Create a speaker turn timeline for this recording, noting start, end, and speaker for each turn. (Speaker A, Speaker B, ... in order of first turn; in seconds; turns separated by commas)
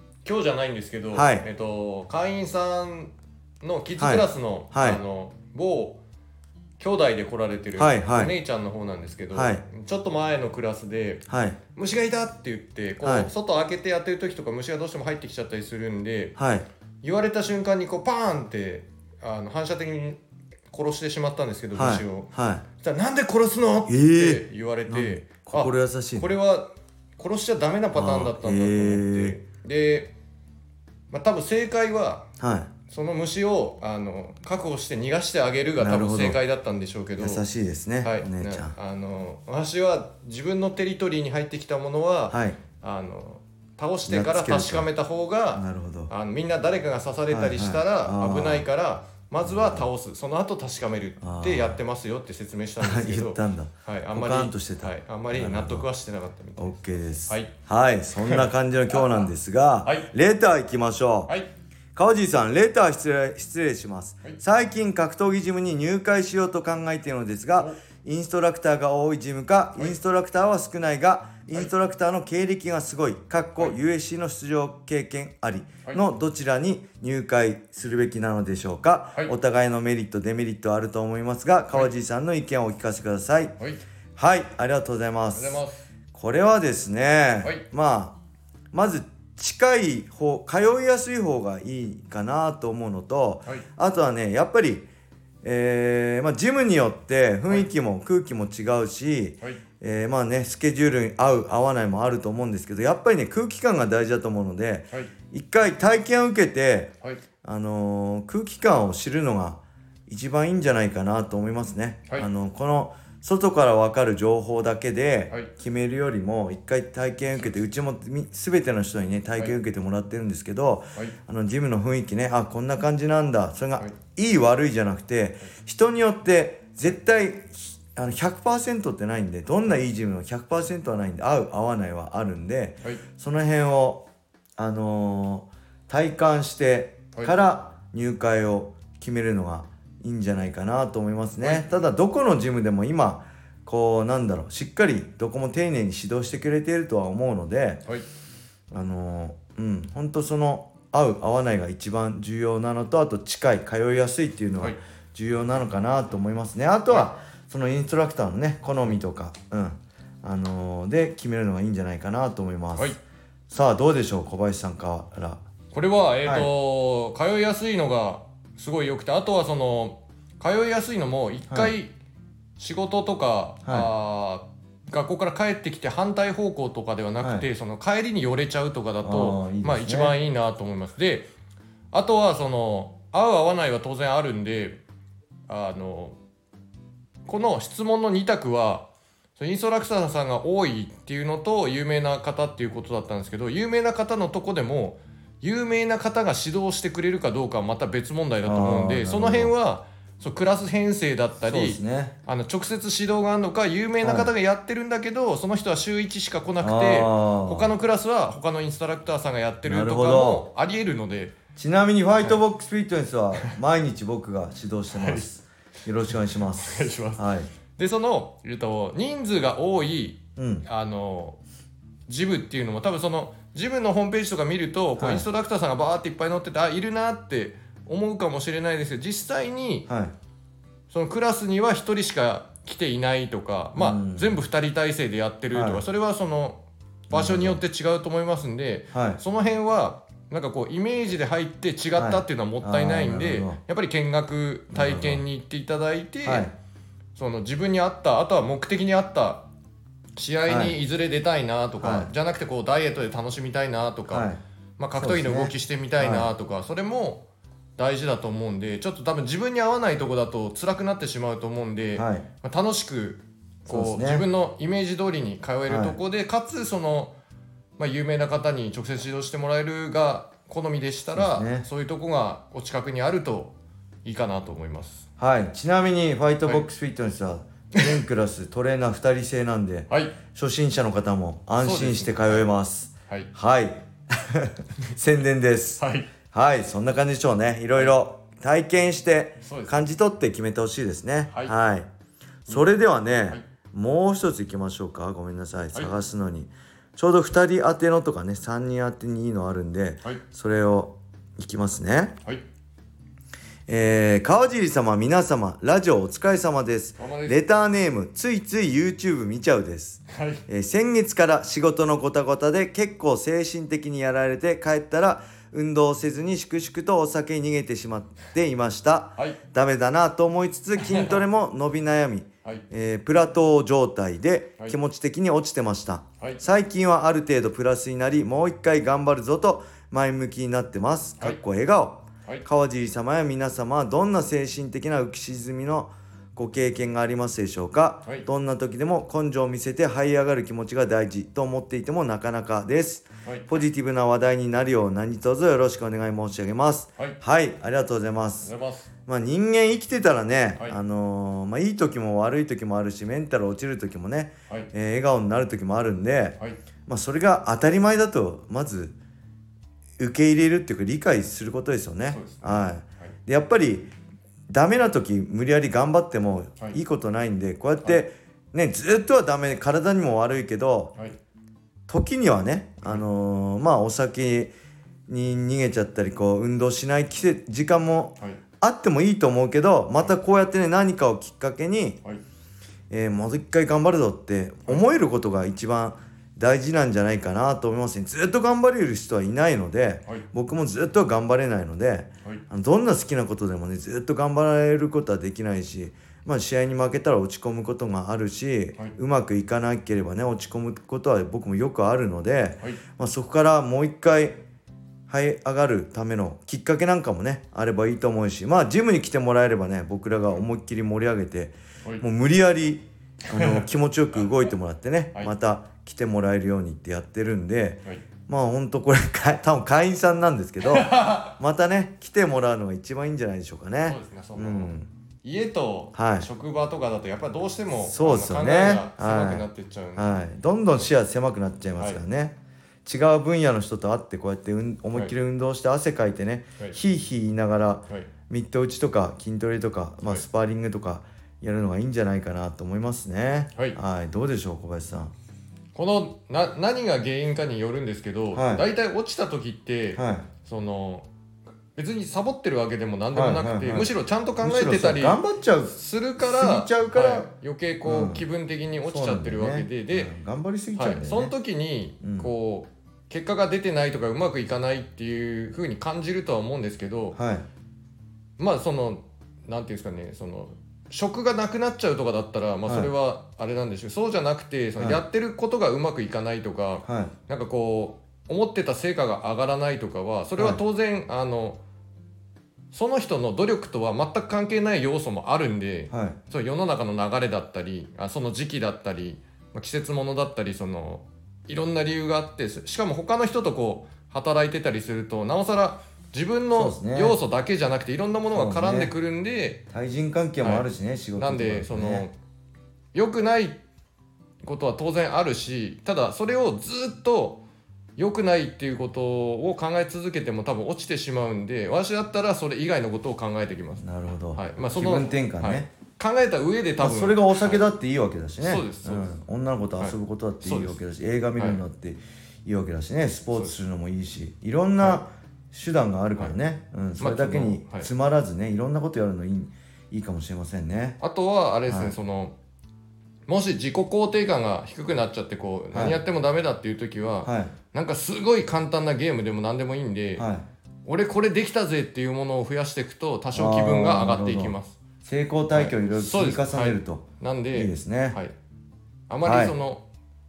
Speaker A: 0.2-6.0, Speaker B: 1.1-1.4, Speaker B: 4.0-5.0, Speaker A: 6.8-11.2, Speaker B: 7.8-8.3, Speaker B: 9.3-9.6, Speaker B: 11.3-11.6, Speaker A: 11.7-16.4, Speaker B: 13.0-13.3, Speaker B: 16.4-16.7, Speaker A: 17.0-20.2, Speaker A: 20.7-30.1, Speaker B: 21.7-22.6, Speaker B: 23.9-26.3, Speaker B: 27.9-29.4, Speaker A: 31.1-32.2, Speaker B: 32.4-32.7, Speaker A: 32.9-37.4, Speaker B: 35.8-36.4, Speaker B: 37.2-38.7, Speaker A: 38.0-57.5, Speaker B: 42.3-42.6, Speaker B: 44.1-44.9, Speaker B: 45.5-46.1, Speaker B: 47.3-48.7, Speaker B: 49.4-49.9, Speaker B: 51.2-51.8, Speaker B: 52.8-55.9, Speaker B: 56.6-61.3, Speaker A: 58.2-59.3, Speaker B: 62.0-83.5, Speaker B: 84.2-85.6, Speaker A: 85.3-85.8, Speaker B: 86.1-88.2, Speaker B: 88.7-94.9, Speaker B: 95.4-134.0, Speaker B: 134.6-147.8, Speaker A: 141.4-141.7, Speaker B: 148.7-162.9, Speaker B: 163.5-165.4, Speaker A: 165.7-171.9, Speaker B: 166.2-166.5, Speaker B: 171.5-171.7, Speaker A: 172.6-181.3, Speaker B: 173.6-173.9, Speaker B: 177.2-177.5, Speaker B: 179.0-180.2, Speaker A: 181.9-184.8, Speaker A: 185.5-186.2, Speaker A: 187.2-188.8, Speaker A: 189.4-211.3, Speaker B: 198.4-199.5, Speaker B: 201.4-202.1, Speaker B: 204.0-204.3, Speaker B: 206.6-207.7, Speaker B: 209.6-210.5, Speaker B: 211.6-217.5, Speaker A: 214.9-215.2, Speaker A: 216.1-221.4, Speaker B: 220.4-220.6, Speaker A: 222.1-229.9, Speaker B: 225.0-225.2, Speaker A: 230.9-246.5, Speaker B: 233.8-234.4, Speaker B: 235.5-235.8, Speaker B: 237.1-237.6, Speaker B: 238.9-239.2, Speaker B: 241.9-243.6, Speaker B: 244.7-245.2, Speaker B: 246.2-246.5, Speaker A: 247.2-249.4, Speaker A: 250.2-257.2, Speaker B: 250.4-250.8, Speaker B: 251.8-252.1, Speaker B: 254.1-254.4, Speaker B: 254.9-256.3, Speaker A: 257.8-267.1, Speaker B: 261.9-262.3, Speaker B: 263.7-264.2, Speaker B: 265.7-266.0, Speaker A: 267.8-273.5, Speaker B: 271.1-271.6, Speaker A: 274.0-275.0, Speaker B: 275.2-285.8, Speaker A: 279.9-280.2, Speaker A: 281.6-282.5, Speaker A: 285.8-286.1, Speaker B: 286.3-291.9, Speaker A: 289.4-289.8, Speaker B: 292.5-302.1, Speaker B: 303.7-348.5, Speaker A: 307.0-307.4, Speaker A: 310.1-310.4, Speaker A: 320.8-321.2, Speaker A: 348.4-348.9, Speaker B: 349.1-358.9, Speaker B: 360.0-363.9, Speaker A: 362.1-363.1, Speaker B: 364.5-370.9, Speaker B: 371.9-374.5, Speaker B: 375.1-382.0, Speaker B: 382.9-404.4, Speaker B: 405.1-424.9, Speaker A: 413.3-413.6, Speaker A: 420.6-421.3, Speaker A: 423.9-424.7, Speaker A: 425.2-430.2, Speaker B: 425.9-426.3, Speaker B: 427.7-445.1, Speaker A: 445.7-451.1, Speaker B: 448.3-448.6, Speaker B: 449.9-450.3, Speaker A: 451.8-460.1, Speaker B: 453.1-453.9, Speaker B: 454.4-457.3, Speaker B: 457.8-458.2, Speaker B: 458.8-461.3, Speaker A: 460.8-467.2, Speaker B: 462.0-462.3, Speaker B: 467.1-467.4, Speaker A: 468.4-481.6, Speaker B: 472.7-472.9, Speaker B: 476.8-477.1, Speaker A: 482.7-499.6, Speaker B: 485.9-486.2, Speaker B: 496.5-497.2, Speaker B: 498.3-498.9, Speaker B: 499.7-502.1, Speaker A: 501.2-502.1, Speaker A: 502.9-503.6, Speaker A: 504.4-507.4, Speaker A: 508.0-517.6, Speaker B: 513.8-515.7, Speaker B: 516.8-531.0, Speaker A: 518.4-519.1, Speaker A: 519.8-520.8, Speaker A: 527.0-527.9, Speaker A: 531.0-532.3, Speaker B: 531.7-531.9, Speaker A: 533.3-540.3, Speaker B: 535.7-536.0, Speaker B: 537.2-537.5, Speaker B: 540.2-540.5, Speaker A: 540.8-544.8, Speaker B: 543.3-548.2, Speaker A: 545.5-548.3, Speaker A: 549.1-549.8, Speaker B: 549.2-549.5